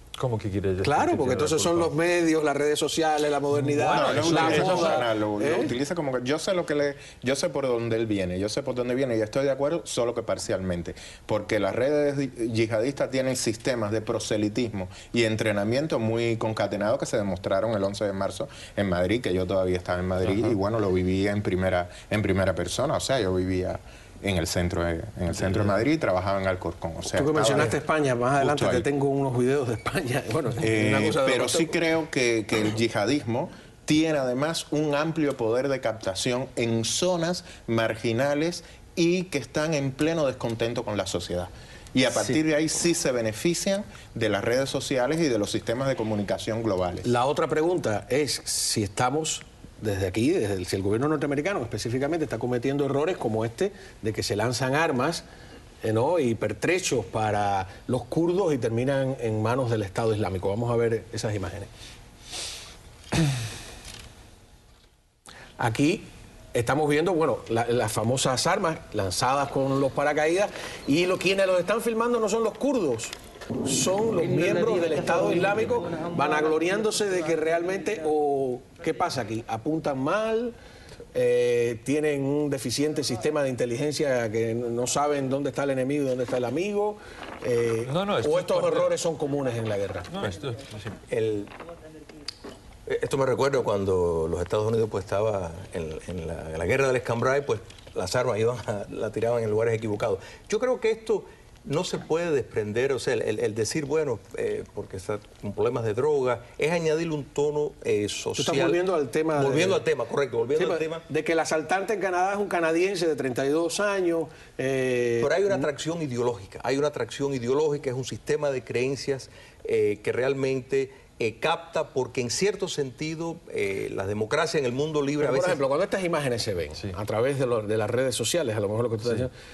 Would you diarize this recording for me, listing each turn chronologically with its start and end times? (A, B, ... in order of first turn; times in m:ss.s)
0:00.2-0:01.9 A
0:00.8-0:05.7 B
0:03.5-0:05.0 A
0:03.9-0:27.8 C
0:27.1-0:31.8 B
0:28.4-0:28.9 C
0:30.6-0:47.1 C
0:47.0-0:55.2 B
0:55.8-1:01.7 B
1:05.6-1:20.5 B
1:21.1-1:30.1 B
1:27.8-1:28.9 A
1:30.1-1:31.0 A
1:31.1-1:31.5 D
1:32.9-1:48.8 D
1:48.4-1:49.8 B
1:49.4-1:51.0 D
1:50.5-1:55.6 B
1:55.2-2:05.6 D
2:05.2-2:09.3 B